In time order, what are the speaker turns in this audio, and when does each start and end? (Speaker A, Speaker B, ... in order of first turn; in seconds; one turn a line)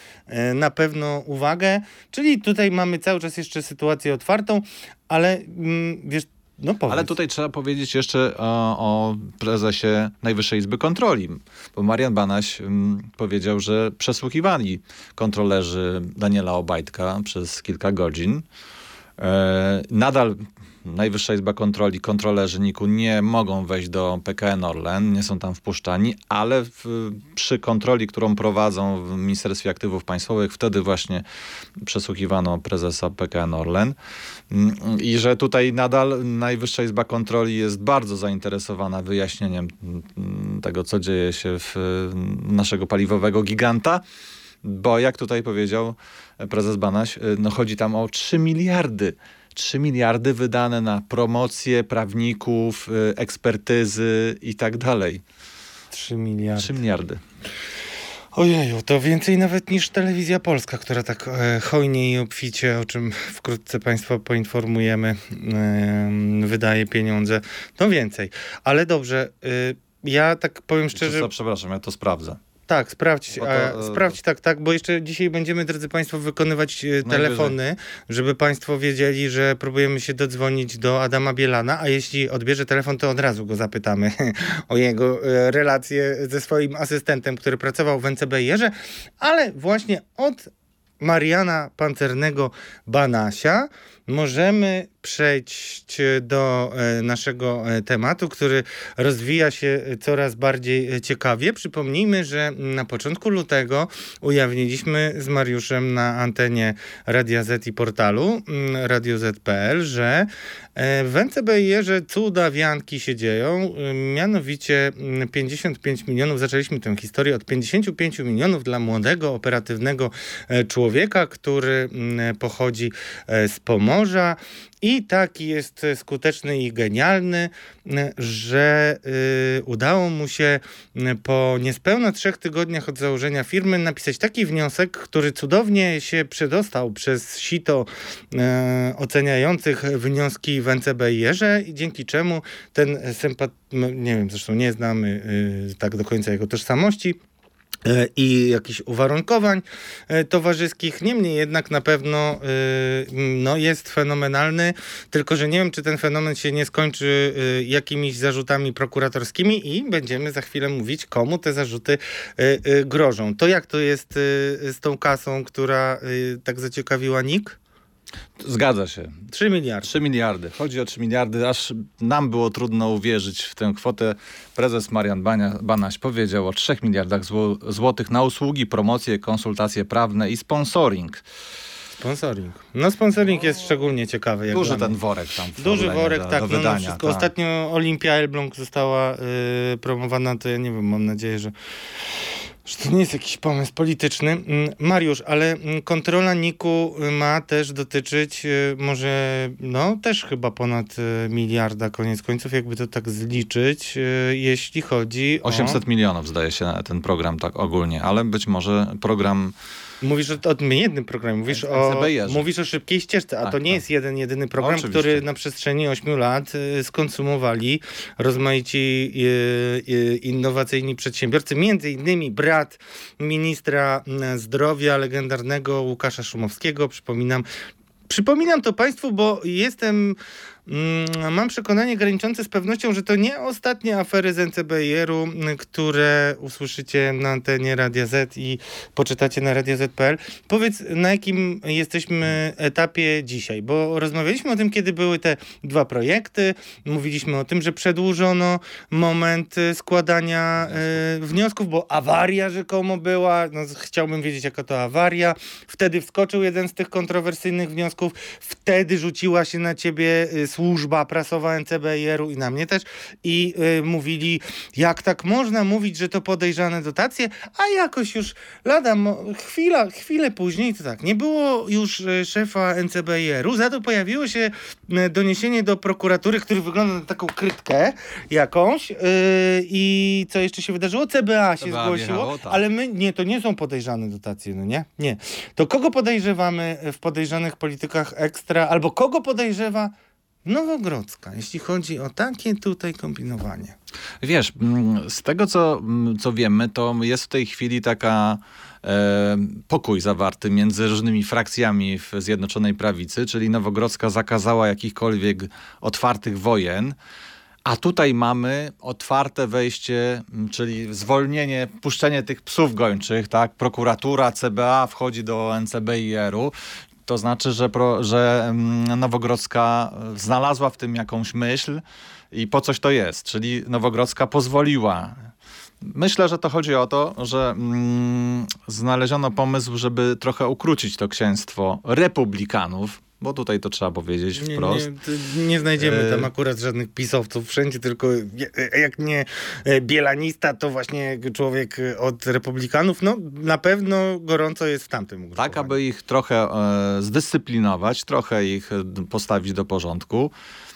Speaker A: 0.3-7.1
Speaker B: 6.9-18.4
Speaker B: 19.2-31.2
Speaker B: 31.8-34.0
Speaker B: 34.5-44.0
Speaker B: 44.6-55.2
Speaker A: 55.9-56.8
Speaker B: 56.6-57.2
Speaker A: 58.3-71.3
Speaker B: 70.9-72.4
Speaker A: 72.7-147.2
Speaker B: 73.3-74.1
Speaker B: 77.0-77.5
Speaker A: 147.8-167.6
Speaker B: 168.4-169.2
Speaker A: 169.3-169.9
Speaker B: 169.8-181.2
Speaker A: 182.0-184.9
Speaker B: 184.5-187.3
Speaker A: 185.6-191.5
Speaker A: 192.7-205.8
Speaker B: 205.4-209.5
Speaker A: 210.0-227.4
Speaker B: 211.5-212.5
Speaker B: 213.4-213.8
Speaker B: 214.6-215.2
Speaker A: 228.1-289.9
Speaker B: 250.7-250.9
Speaker B: 281.6-282.6
Speaker A: 290.4-293.7
Speaker B: 294.2-306.9
Speaker B: 307.6-316.5
Speaker B: 317.1-321.8
Speaker B: 322.3-325.3
Speaker B: 325.8-334.9
Speaker A: 334.4-345.8
Speaker B: 335.8-336.3
Speaker B: 345.4-350.3